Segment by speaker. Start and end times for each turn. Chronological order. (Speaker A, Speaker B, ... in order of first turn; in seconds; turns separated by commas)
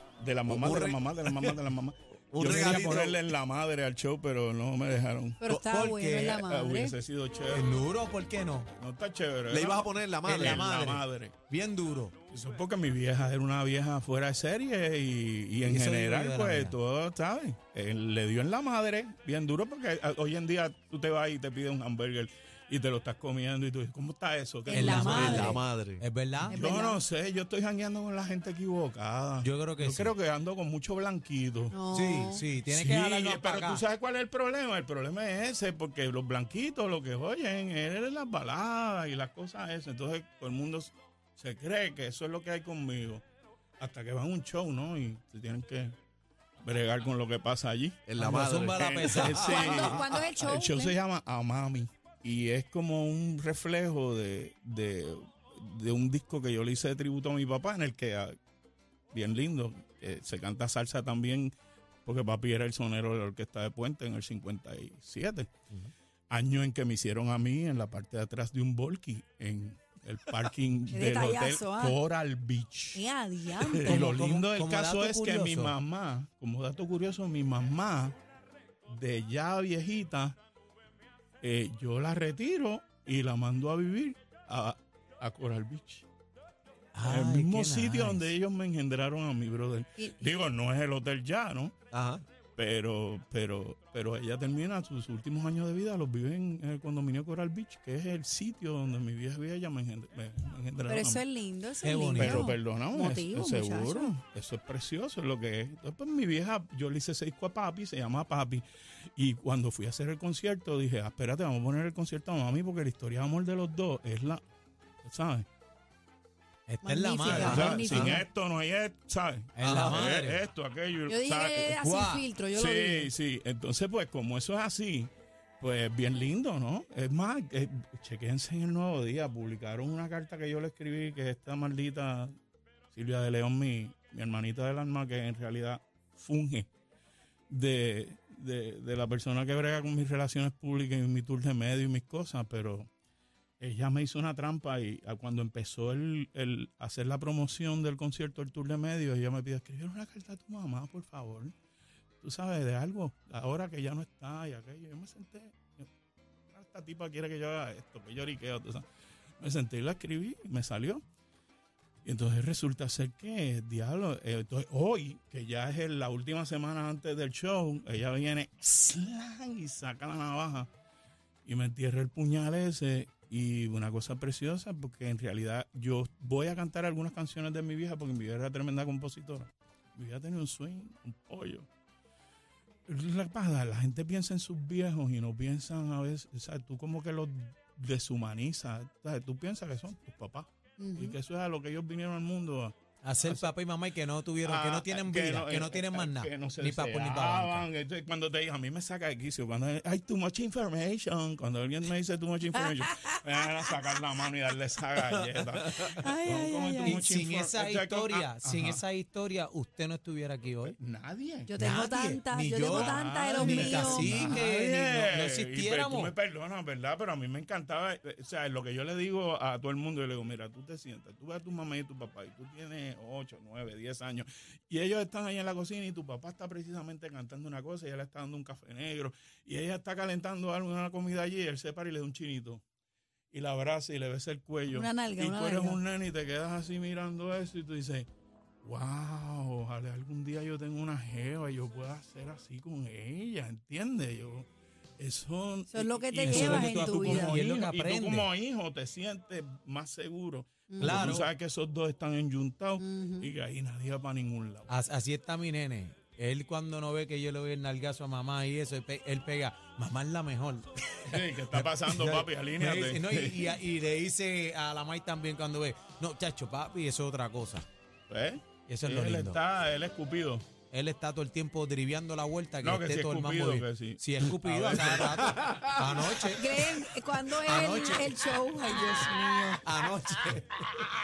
Speaker A: 0.2-5.5, Speaker B: 0.5-1.6, Speaker B: 2.3-3.2, Speaker C: 2.4-3.1, Speaker D: 5.4-7.0, Speaker C: 5.5-6.5, Speaker A: 6.3-7.8, Speaker C: 7.5-8.7, Speaker A: 8.8-11.3, Speaker B: 9.5-10.7, Speaker C: 10.2-12.1, Speaker A: 12.3-25.5, Speaker C: 15.6-16.8, Speaker D: 24.6-25.6, Speaker C: 24.7-26.6, Speaker B: 24.9-26.0, Speaker D: 26.5-27.0, Speaker A: 26.5-31.8, Speaker C: 29.4-30.1, Speaker D: 31.7-32.4, Speaker C: 31.9-33.8, Speaker A: 32.6-43.2, Speaker A: 43.8-45.9, Speaker A: 46.6-48.0, Speaker B: 48.1-50.2, Speaker C: 48.2-49.5, Speaker A: 48.7-58.4, Speaker D: 49.4-51.0, Speaker A: 59.1-61.5, Speaker A: 62.0-65.5, Speaker A: 66.3-73.0, Speaker D: 70.9-72.0, Speaker D: 72.9-74.0, Speaker A: 73.6-78.2, Speaker C: 73.8-75.7, Speaker A: 78.9-80.4, Speaker A: 81.4-86.0, Speaker C: 86.9-88.3, Speaker A: 87.0-91.7, Speaker D: 90.0-90.3, Speaker B: 91.9-92.2, Speaker A: 92.6-101.2, Speaker D: 100.9-104.1, Speaker C: 101.8-102.5, Speaker A: 102.1-108.6, Speaker A: 109.2-114.4, Speaker A: 115.0-115.5, Speaker C: 116.7-118.0, Speaker D: 116.8-118.2, Speaker B: 117.3-118.2, Speaker A: 117.4-121.9, Speaker C: 119.5-120.4, Speaker B: 119.6-120.0, Speaker D: 121.1-123.1, Speaker C: 121.8-122.2, Speaker A: 122.5-132.3, Speaker A: 132.9-136.7, Speaker A: 137.5-142.9, Speaker A: 143.6-151.5, Speaker A: 152.2-155.9, Speaker A: 156.5-158.8, Speaker A: 159.4-161.0, Speaker A: 162.0-170.7, Speaker A: 171.4-181.7, Speaker A: 182.9-193.4, Speaker D: 190.8-191.1, Speaker C: 193.0-197.7, Speaker A: 194.4-208.8, Speaker D: 202.6-203.5, Speaker B: 205.2-206.0, Speaker D: 205.9-207.0, Speaker C: 206.8-210.8, Speaker A: 210.6-211.6, Speaker D: 211.5-214.3, Speaker C: 211.6-216.1, Speaker A: 212.7-232.6, Speaker A: 233.3-238.1, Speaker D: 234.7-235.8, Speaker A: 238.6-244.5, Speaker A: 245.0-254.7, Speaker D: 245.7-247.4, Speaker C: 246.2-248.3, Speaker D: 250.7-251.2, Speaker C: 250.8-251.2, Speaker D: 252.8-253.3, Speaker C: 254.7-267.6, Speaker A: 261.1-263.6, Speaker A: 268.1-270.4, Speaker C: 268.7-269.4, Speaker C: 270.7-276.5, Speaker A: 272.6-275.3, Speaker B: 275.2-275.7, Speaker D: 276.3-279.6, Speaker C: 277.4-278.2, Speaker C: 279.6-280.7